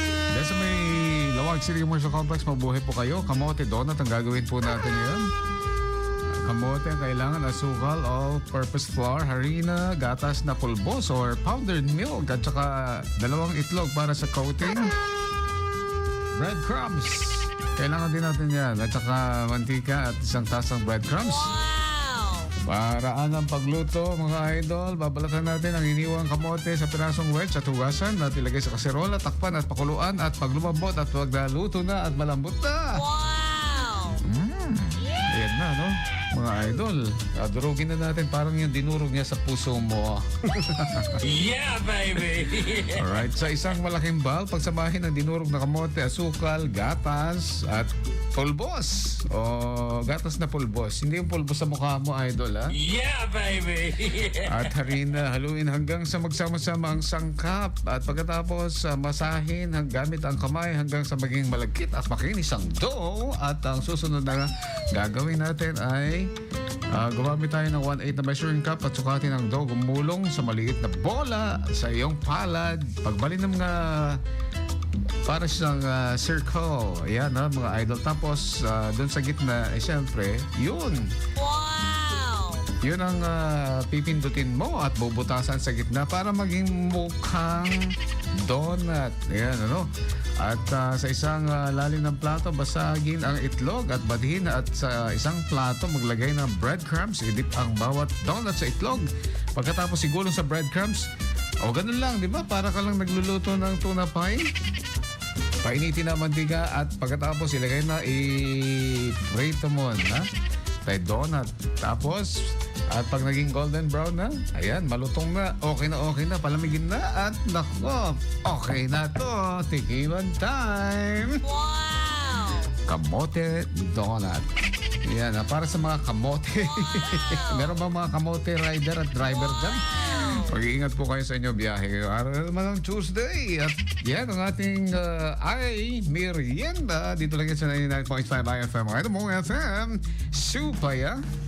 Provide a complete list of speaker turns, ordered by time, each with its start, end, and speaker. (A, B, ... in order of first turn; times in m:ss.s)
0:00.3-0:05.3 A
0:06.4-0:14.9 A
0:16.4-0:21.5 A
0:21.2-0:22.5 B
0:22.6-0:33.0 A
0:32.9-0:34.2 B
0:34.2-0:41.2 A
0:41.2-0:43.2 C
0:42.8-0:52.8 A
0:52.7-0:54.8 C
0:54.4-1:06.3 A
1:06.9-1:14.2 A
1:15.3-1:21.2 A
1:21.4-1:22.7 B
1:22.8-1:41.1 A
1:41.6-1:44.5 A
1:45.6-1:50.3 A
1:50.8-2:01.5 A
2:01.4-2:02.7 B
2:02.9-2:04.5 A
2:05.0-2:21.2 A
2:07.0-2:07.7 B
2:09.5-2:10.5 B